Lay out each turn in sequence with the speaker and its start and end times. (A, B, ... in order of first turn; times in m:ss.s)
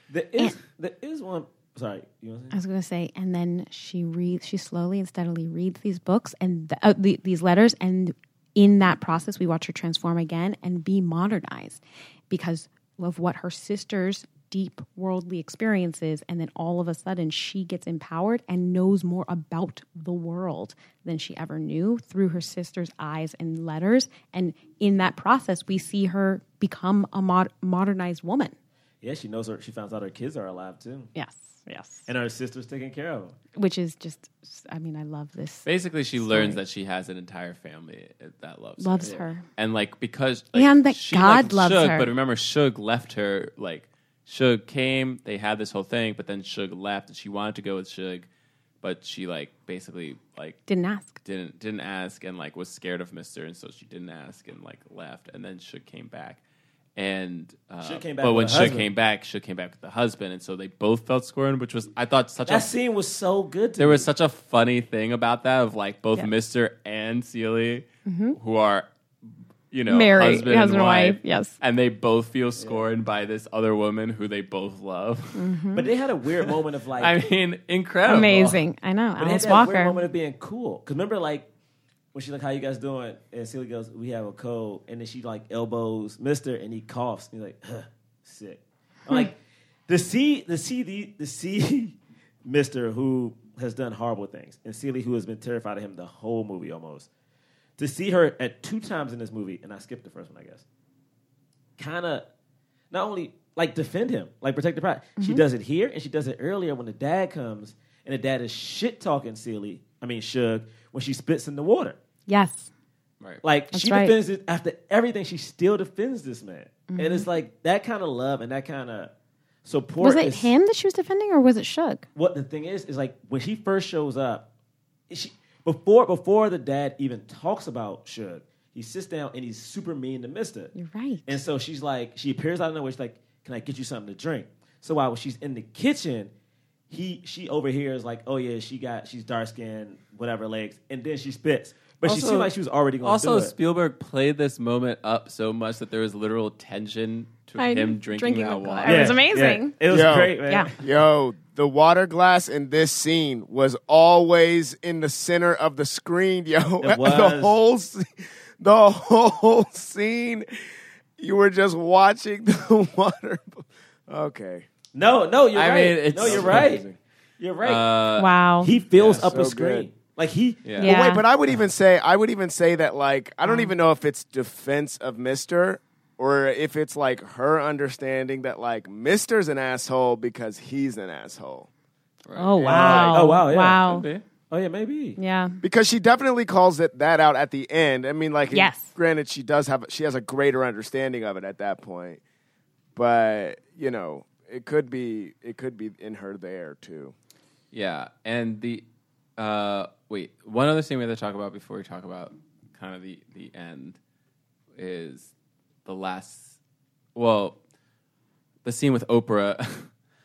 0:00.1-0:02.6 A
0:02.5-0:28.6 B
0:29.0-0:31.1 A
0:31.2-0:32.1 B
0:32.1-0:33.4 A
0:33.6-0:36.6 B
0:35.7-0:48.3 C
0:38.8-0:39.5 B
0:40.5-0:42.1 B
0:48.8-0:50.6 C
0:50.7-0:51.2 B
0:51.2-0:56.4 C
0:57.0-1:02.7 C
0:57.8-0:58.9 A
1:02.5-1:04.1 A
1:03.8-1:08.9 C
1:08.1-1:08.4 B
1:09.7-1:15.5 C
1:09.9-1:11.6 B
1:12.6-1:12.8 A
1:15.4-1:15.9 B
1:15.7-1:17.2 A
1:16.4-1:18.6 C
1:18.1-1:20.0 B
1:19.2-1:21.5 A
1:22.1-1:29.4 A
1:29.9-1:37.1 A
1:37.8-1:40.6 A
1:41.8-1:42.3 A
1:42.9-1:52.0 A
1:45.2-1:45.4 B
1:52.3-1:52.7 B
1:53.4-1:59.1 A
1:53.7-1:54.2 B
1:56.9-1:57.3 B
1:59.6-2:00.5 A
2:00.0-2:02.1 B
2:02.2-2:04.4 A
2:05.1-2:10.7 A
2:10.8-2:11.4 B
2:11.3-2:16.3 A
2:16.9-2:23.5 A
2:22.0-2:29.2 C
2:27.6-2:29.8 B
2:28.8-2:30.8 A
2:29.9-2:38.1 D
2:36.8-2:37.6 A
2:38.6-2:40.5 D
2:41.2-2:44.7 D
2:44.9-2:46.8 A
2:45.5-2:46.8 C
2:46.2-2:47.0 D
2:47.4-2:47.8 A
2:47.6-2:48.3 C
2:48.2-2:48.7 B
2:48.6-2:50.8 A
2:49.0-2:49.3 C
2:49.2-2:49.9 D
2:50.6-2:50.9 C
2:50.8-3:01.7 D
2:50.8-2:51.2 B
2:53.4-2:53.7 B
3:02.3-3:04.2 C
3:02.4-3:04.1 B
3:02.6-3:05.2 A
3:05.2-3:05.6 B
3:05.6-3:12.2 D
3:08.5-3:08.9 B
3:13.0-3:17.1 D
3:17.7-3:18.8 C
3:19.4-3:24.0 C
3:24.8-3:25.3 C
3:25.8-3:26.6 C
3:27.2-3:27.6 C
3:28.6-3:29.9 C